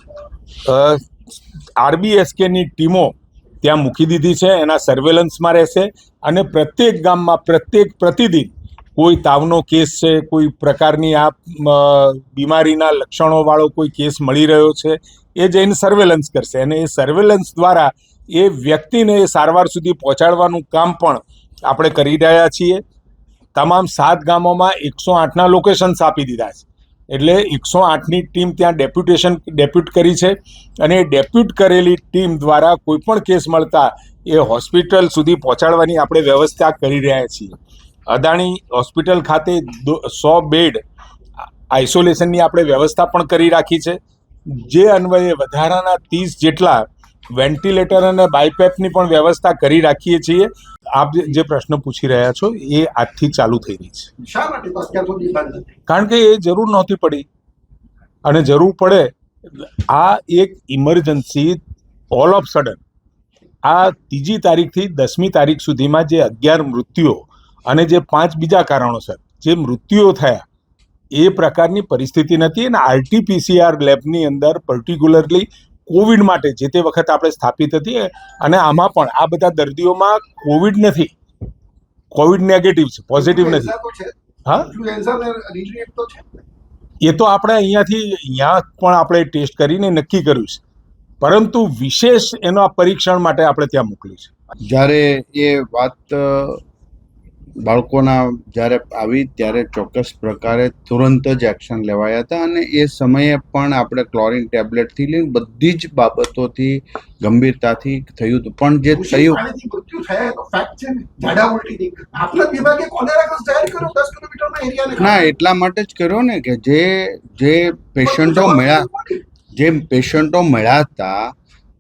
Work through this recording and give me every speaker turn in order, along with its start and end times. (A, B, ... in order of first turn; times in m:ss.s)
0:00.6-0:01.1 A
0:01.8-0:22.8 A
0:23.6-0:37.6 A
0:38.1-0:40.8 A
0:41.7-0:44.0 A
0:44.5-0:46.8 A
0:47.4-0:54.1 A
0:54.2-0:55.7 B
0:55.9-0:57.3 A
0:58.2-1:01.6 A
1:02.1-1:02.8 A
1:03.6-1:10.4 A
1:11.2-1:21.1 A
1:22.1-1:23.8 A
1:23.1-1:26.2 B
1:27.0-1:30.6 A
1:31.2-1:34.3 A
1:34.7-1:36.6 C
1:37.6-1:49.4 C
1:48.9-1:55.3 B
1:55.0-1:58.9 C
1:58.0-1:59.2 B
1:59.6-2:01.3 C